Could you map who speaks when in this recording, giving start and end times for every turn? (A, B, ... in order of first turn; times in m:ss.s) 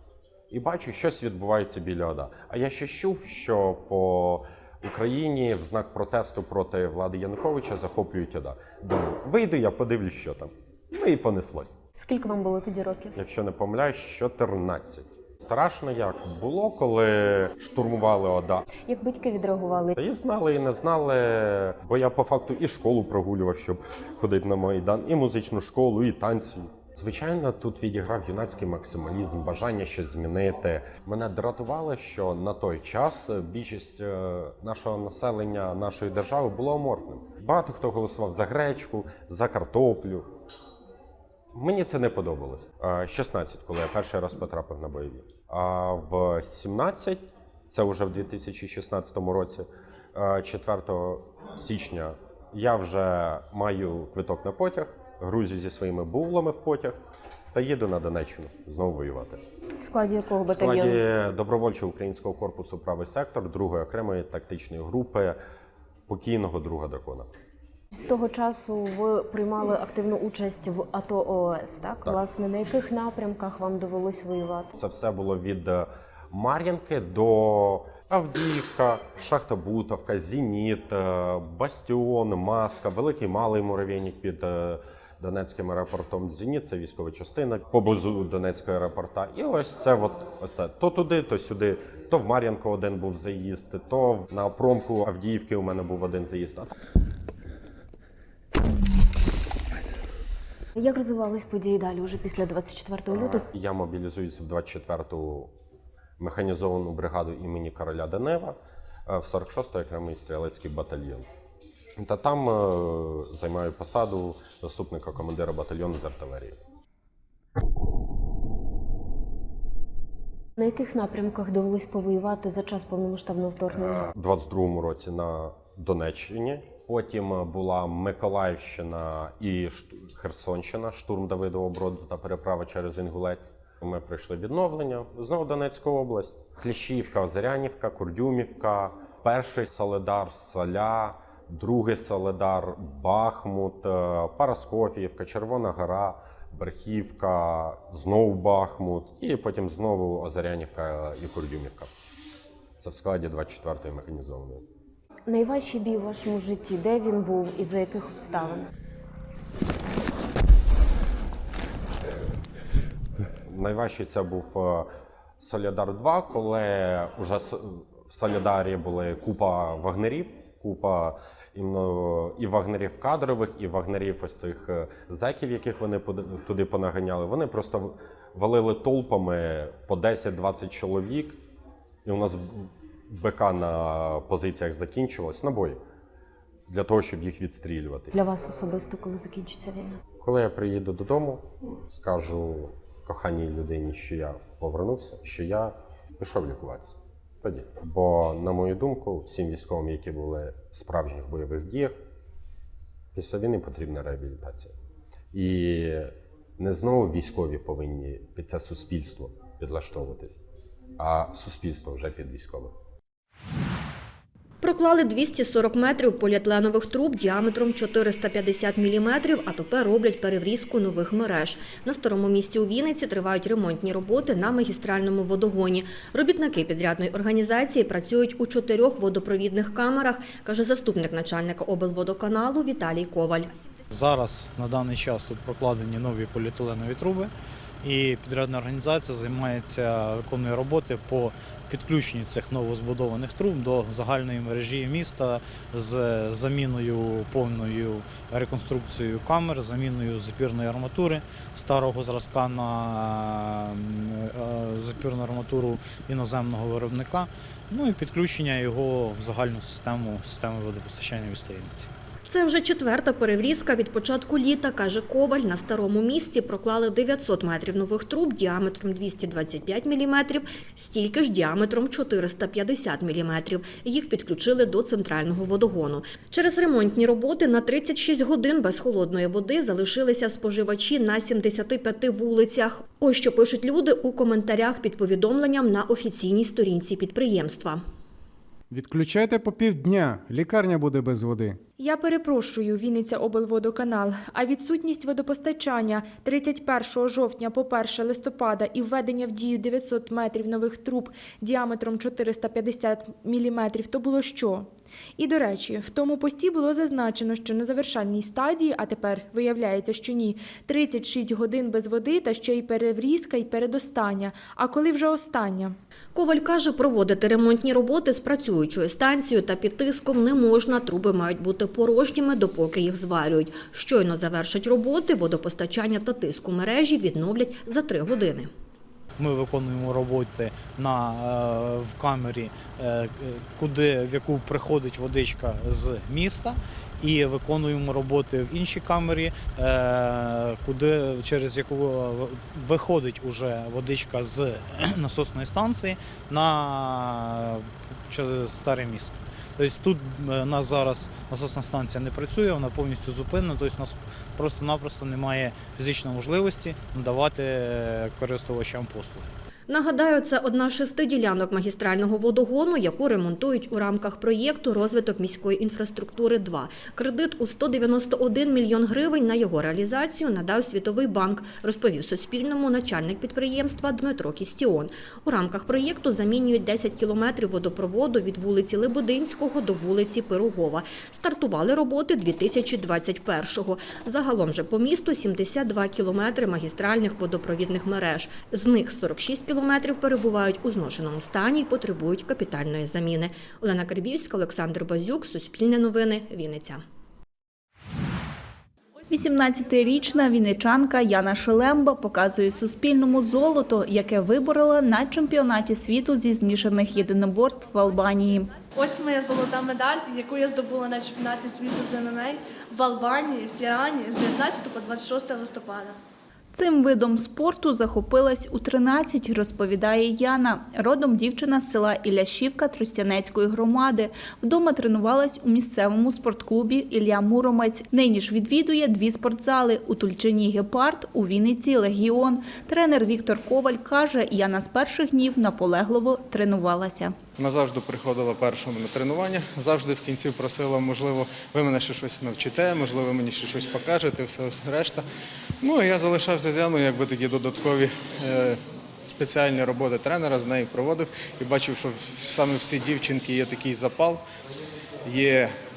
0:00.5-0:11.8 A
0:12.0-0:13.1 B
0:13.2-0:18.6 A
0:18.8-0:20.0 B
0:20.0-0:40.3 A
0:41.5-0:57.0 A
0:57.5-0:59.4 A
0:59.8-1:01.0 B
1:00.4-1:05.4 A
1:06.1-1:07.3 A
1:07.9-1:14.7 B
1:14.7-1:36.7 A
1:40.8-1:43.4 B
1:43.1-1:45.5 A
1:46.2-1:48.6 A
1:49.1-1:51.2 A
1:52.0-1:56.6 A
2:00.6-2:04.1 B
2:03.9-2:31.9 A
2:32.8-2:34.6 A
2:35.3-2:38.6 B
2:43.5-2:44.9 A
2:45.4-3:01.4 A
3:02.0-3:05.8 A
3:06.7-3:08.1 A
3:08.1-3:10.0 B
3:10.2-3:22.0 A
3:23.1-3:24.7 A
3:25.3-3:30.4 A
3:31.0-3:32.7 A
3:34.6-3:53.5 C
3:53.9-3:57.3 D
3:57.8-4:21.9 D
4:22.3-4:47.8 C
4:48.7-4:51.6 E
4:51.8-5:15.8 F
5:16.1-5:28.5 C
5:29.2-5:59.3 D
5:59.7-6:36.8 C
6:39.1-6:48.5 G
6:48.8-6:55.9 H
6:56.5-7:17.1 G
7:17.4-7:25.0 I
7:25.6-7:34.2 I
7:35.0-7:35.5 I